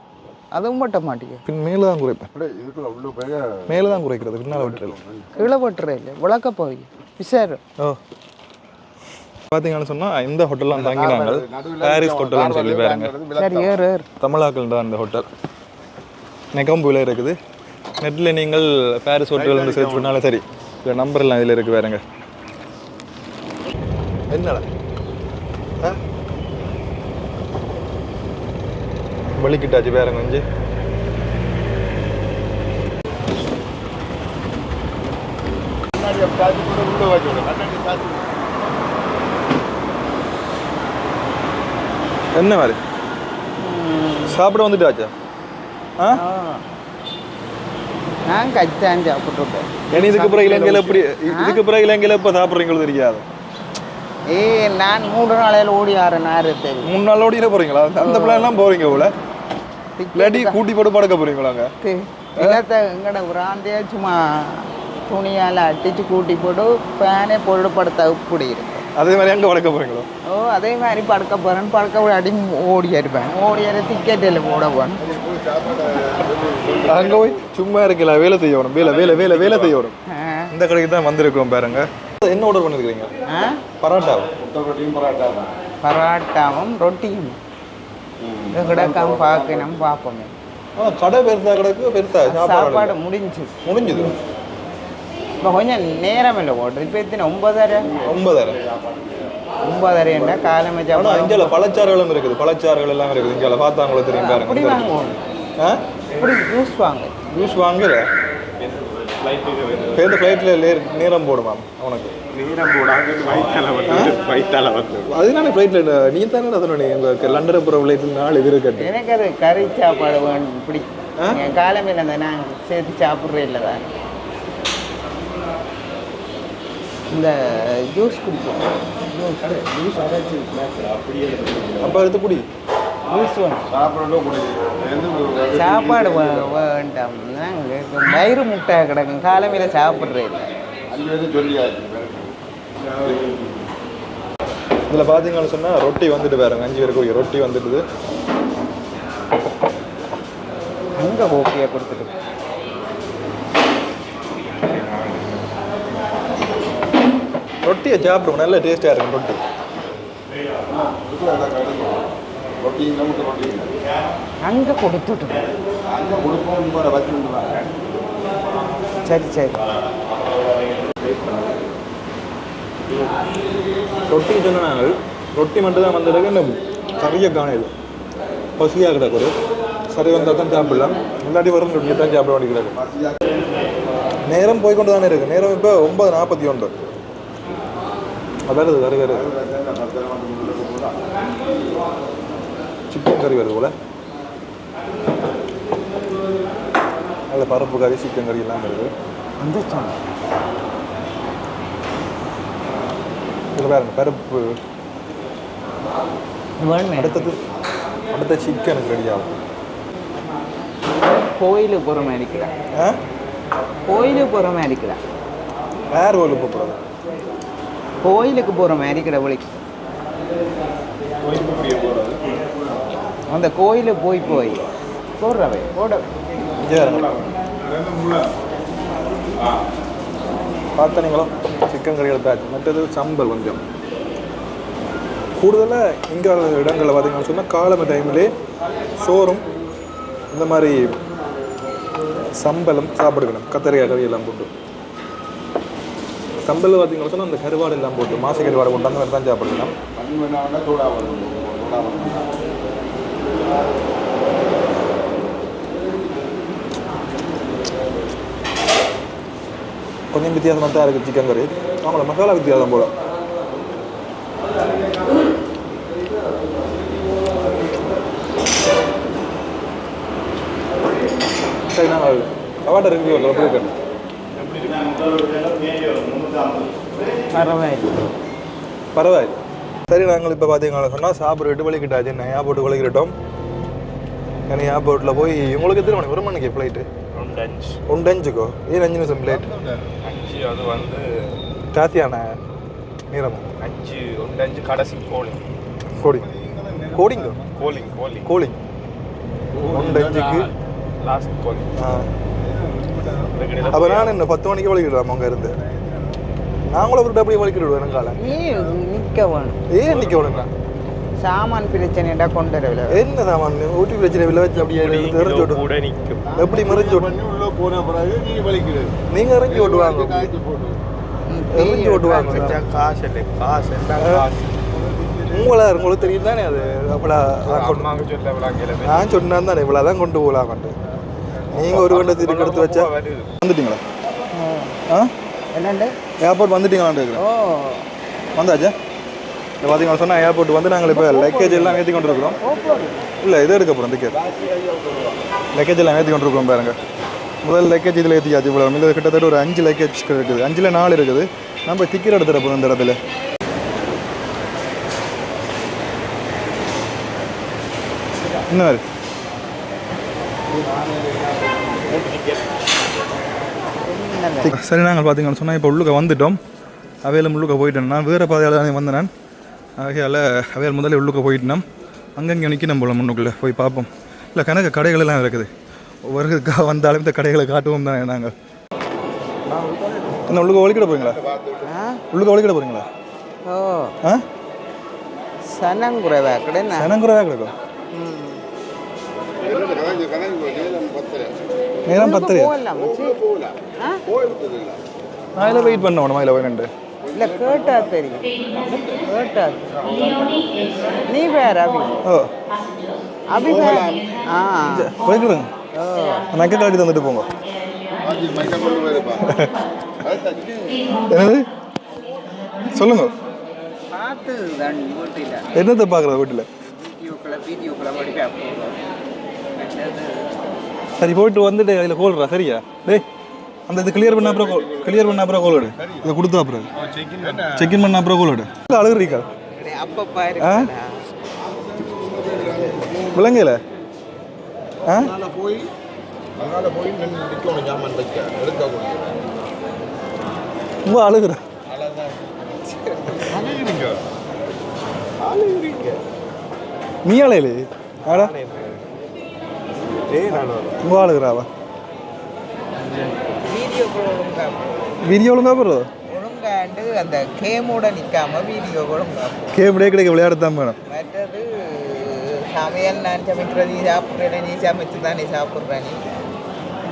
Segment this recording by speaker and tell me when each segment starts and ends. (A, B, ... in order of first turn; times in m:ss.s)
0:00.5-0:01.4 A
0:01.4-0:02.3 B
0:02.3-0:05.3 C
0:03.7-0:05.0 B
0:05.4-0:07.6 A
0:09.5-0:13.1 B
0:10.7-0:13.8 C
0:13.4-0:14.1 A
0:14.2-0:15.3 B
0:16.5-0:17.4 B
0:18.0-0:22.0 B
0:19.4-0:20.1 D
0:24.3-0:24.6 B
0:29.3-0:30.4 B
0:35.9-0:38.4 C
0:42.3-0:42.8 B
0:43.6-0:44.4 A
0:44.3-0:45.1 B
0:46.1-0:46.6 A
0:48.3-0:49.8 A
0:49.9-0:51.0 D
0:49.9-0:53.2 B
0:51.3-0:51.6 A
0:54.3-0:56.9 A
0:56.8-0:59.1 B
0:58.0-0:58.5 A
1:00.0-1:00.6 A
1:00.1-1:01.7 B
1:01.8-1:08.8 A
1:09.0-1:10.1 B
1:10.2-1:15.0 A
1:15.0-1:17.4 C
1:16.9-1:20.0 B
1:18.9-1:19.7 C
1:20.1-1:20.5 A
1:20.5-1:23.1 B
1:23.3-1:23.6 A
1:23.8-1:24.3 B
1:24.4-1:25.5 C
1:25.8-1:27.4 A
1:28.2-1:29.9 C
1:28.5-1:30.3 A
1:30.8-1:33.0 B
1:32.2-1:33.5 A
1:33.6-1:34.1 B
1:35.4-1:37.9 A
1:37.9-1:39.2 D
1:38.0-1:38.6 B
1:39.6-1:41.6 A
1:40.9-1:44.9 B
1:44.1-1:45.2 A
1:45.6-1:45.8 B
1:46.2-1:47.2 A
1:47.3-1:48.1 B
1:48.6-1:50.1 D
1:49.9-1:52.1 B
1:52.3-1:55.1 D
1:53.9-1:54.1 B
1:55.1-1:58.9 B
1:58.8-2:03.9 A
2:07.1-2:09.4 A
2:09.4-2:11.9 D
2:11.8-2:12.4 B
2:13.1-2:13.6 A
2:13.7-2:16.5 C
2:15.5-2:20.5 A
2:20.9-2:22.4 C
2:22.8-2:23.5 D
2:24.9-2:27.8 B
2:31.0-2:32.1 A
2:34.6-2:35.4 D
2:37.6-2:39.4 B
2:40.7-2:42.1 C
2:42.6-2:43.7 C
2:44.4-2:45.5 A
2:45.9-2:47.6 C
2:49.0-2:49.6 A
2:50.2-2:51.6 D
2:54.1-2:57.7 B
2:58.6-2:59.3 B
2:59.9-3:02.8 B
3:00.0-3:01.0 C
3:02.7-3:03.4 C
3:04.2-3:06.7 B
3:08.5-3:09.3 B
3:09.1-3:11.0 C
3:12.9-3:13.7 B
3:17.3-3:18.9 B
3:19.4-3:20.0 A
3:23.5-3:24.6 B
3:26.6-3:27.3 A
3:27.0-3:27.4 B
3:28.1-3:29.3 B
3:31.0-3:32.5 A
3:32.7-3:33.0 B
3:33.9-3:35.0 A
3:35.9-3:36.8 B
3:38.0-3:39.5 A
3:41.2-3:42.4 D
3:43.3-3:44.6 A
3:45.2-3:46.0 A
3:46.6-3:47.1 B
3:46.6-3:47.3 D
3:47.7-3:48.3 C
3:50.8-3:53.6 B
3:55.4-3:58.3 B
3:59.0-3:59.4 B
4:00.3-4:01.0 B
4:02.4-4:04.5 B
4:06.4-4:09.7 B
4:09.9-4:12.3 C
4:20.1-4:22.9 B
4:31.7-4:33.7 B
4:34.3-4:36.6 D
4:37.3-4:38.1 A
4:38.9-4:43.1 B
4:44.5-4:46.9 B
4:47.1-4:47.8 D
4:47.9-4:49.5 B
4:49.2-4:49.9 C
4:50.0-4:51.0 D
4:51.7-4:52.4 B
4:53.1-4:53.4 B
4:53.6-4:55.4 D
4:56.0-4:56.3 B
4:56.0-4:58.0 C
4:56.9-4:57.4 B
4:57.5-4:58.3 D
4:58.2-4:58.6 B
4:59.5-5:00.4 C
4:59.7-5:00.5 B
5:01.0-5:01.7 D
5:01.8-5:02.1 B
5:02.4-5:03.8 C
5:03.3-5:04.2 D
5:03.7-5:05.6 B
5:05.6-5:06.2 C
5:06.7-5:08.2 B
5:08.2-5:09.6 A
5:09.7-5:10.5 B
5:09.8-5:10.5 D
5:11.2-5:13.0 A
5:12.9-5:15.6 B
5:14.8-5:16.3 D
5:16.2-5:20.8 C
5:16.3-5:17.1 B
5:19.1-5:20.3 B
5:21.3-5:22.6 A
5:21.5-5:22.6 B
5:22.2-5:24.9 D
5:24.0-5:24.2 B
5:24.9-5:25.5 C
5:25.3-5:27.9 B
5:27.4-5:29.1 D
5:28.8-5:30.7 B
5:31.5-5:32.9 B
5:31.5-5:33.3 D
5:33.4-5:33.8 B
5:34.3-5:34.8 A
5:35.5-5:35.9 A
5:36.2-5:37.2 B
5:37.2-5:37.8 A
5:38.4-5:38.7 B
5:39.6-5:42.4 B
5:40.9-5:41.8 A
5:42.4-5:42.9 A
5:43.2-5:44.2 B
5:44.1-5:45.3 C
5:45.5-5:46.8 B
5:47.4-5:53.0 B
5:58.5-5:58.8 B
6:00.5-6:02.1 C
6:01.9-6:02.4 D
6:03.8-6:04.6 A
6:04.4-6:06.4 B
6:07.0-6:09.1 B
6:09.8-6:11.6 B
6:12.2-6:15.5 B
6:16.0-6:18.3 B
6:19.5-6:20.2 C
6:20.3-6:21.2 B
6:20.8-6:21.7 C
6:21.6-6:22.0 A
6:22.1-6:22.9 B
6:23.4-6:23.9 A
6:25.4-6:26.9 A
6:26.7-6:27.5 B
6:27.9-6:28.4 A
6:29.3-6:31.4 C
6:31.9-6:32.5 B
6:31.9-6:33.2 A
6:32.7-6:34.8 C
6:35.4-6:36.7 B
6:35.4-6:35.9 A
6:37.0-6:38.0 C
6:37.1-6:39.7 A
6:39.7-6:41.0 C
6:41.1-6:42.0 A
6:42.0-6:42.3 B
6:43.3-6:44.9 A
6:43.4-6:44.2 C
6:44.7-6:45.5 B
6:45.7-6:46.3 A
6:46.3-6:47.3 B
6:48.0-6:49.4 C
6:49.2-6:49.5 B
6:50.0-6:50.8 C
6:51.1-6:51.5 B
6:52.7-6:53.1 B
6:53.9-6:55.5 A
6:55.5-6:56.5 B
6:56.7-6:58.8 A
6:59.5-7:00.4 A
7:01.0-7:03.0 B
7:03.7-7:06.7 B
7:03.8-7:06.1 C
7:06.8-7:07.6 D
7:07.2-7:07.8 C
7:07.5-7:09.3 B
7:09.4-7:11.0 A
7:10.4-7:10.7 B
7:11.4-7:13.3 C
7:13.1-7:13.6 B
7:14.8-7:15.7 C
7:14.9-7:15.1 B
7:16.4-7:19.4 C
7:20.8-7:21.4 B
7:21.7-7:23.5 C
7:23.3-7:24.0 D
7:25.2-7:26.0 D
7:27.0-7:28.3 B
7:28.0-7:28.8 D
7:30.1-7:30.8 D
7:30.8-7:31.5 B
7:33.4-7:35.1 A
7:35.0-7:35.9 B
7:36.1-7:39.6 A
7:39.5-7:40.8 B
7:40.9-7:46.0 A